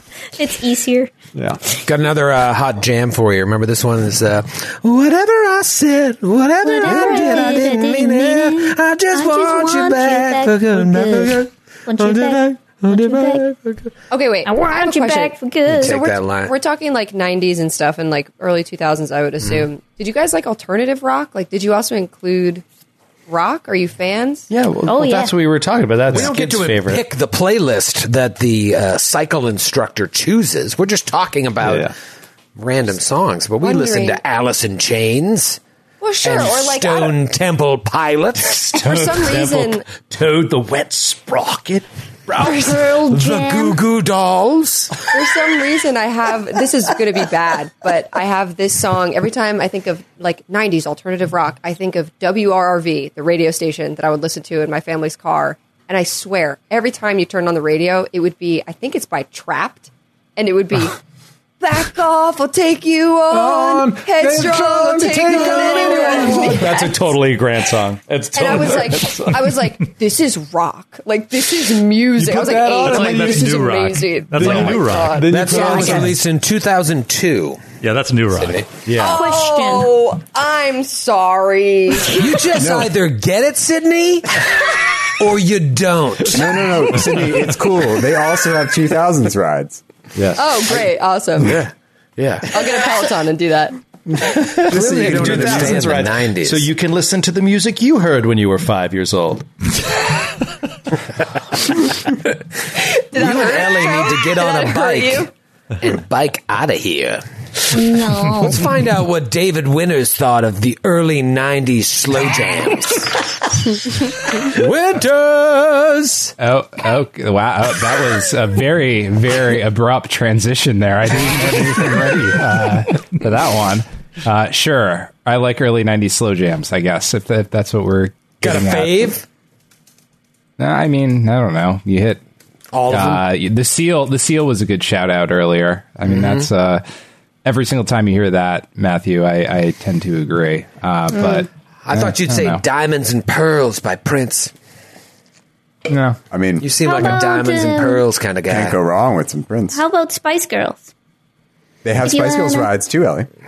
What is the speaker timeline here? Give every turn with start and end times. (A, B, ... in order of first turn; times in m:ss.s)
0:00.4-0:01.1 A
0:01.3-0:01.6 B
0:01.8-0:13.9 C
0:06.6-0:13.4 A
0:14.1-0:22.6 D
0:14.4-0:16.0 A
0:15.7-0:16.5 C
0:23.3-0:24.5 D
0:24.5-0:27.0 E
0:24.8-0:25.3 A
0:26.1-0:31.9 C
0:31.6-0:31.9 B
0:32.6-0:35.6 C
0:33.6-0:34.2 D
0:36.0-0:37.1 D
0:36.2-0:38.7 C
0:38.5-0:41.8 E
0:38.7-0:39.8 D
0:42.3-0:43.8 A
0:43.0-0:45.0 C
0:45.1-1:01.0 D
1:01.6-1:07.0 D
1:03.3-1:06.9 B
1:06.5-1:09.6 E
1:08.3-1:16.1 D
1:12.1-1:13.6 B
1:12.8-1:15.3 F
1:14.3-1:16.2 B
1:15.3-1:17.6 C
1:17.8-1:18.6 F
1:18.4-1:18.7 C
1:18.8-1:19.3 E
1:18.9-1:22.3 D
1:19.0-1:19.9 A
1:22.1-1:24.5 C
1:22.6-1:22.9 G
1:25.0-1:27.1 C
1:26.3-1:29.8 G
1:30.1-1:30.6 B
1:30.4-1:31.6 D
1:31.4-1:32.6 C
1:32.5-1:33.8 D
1:34.2-1:39.4 E
1:34.7-1:36.0 G
1:34.7-1:36.7 C
1:42.9-1:45.3 D
1:43.1-1:45.3 C
1:45.8-1:56.3 C
1:47.7-1:48.6 A
1:56.4-2:09.1 H
2:08.4-2:09.2 C
2:10.6-2:12.2 H
2:12.7-2:13.2 C
2:12.9-2:16.8 H
2:16.0-2:16.5 C
2:17.4-2:22.6 H
2:21.1-2:21.4 A
2:21.8-2:24.5 C
2:25.9-2:26.2 H
2:26.3-2:26.6 G
2:26.6-2:28.8 C
2:26.8-2:28.0 A
2:28.5-2:29.8 G
2:29.7-2:30.9 A
2:31.8-2:33.3 G
2:32.0-2:32.7 A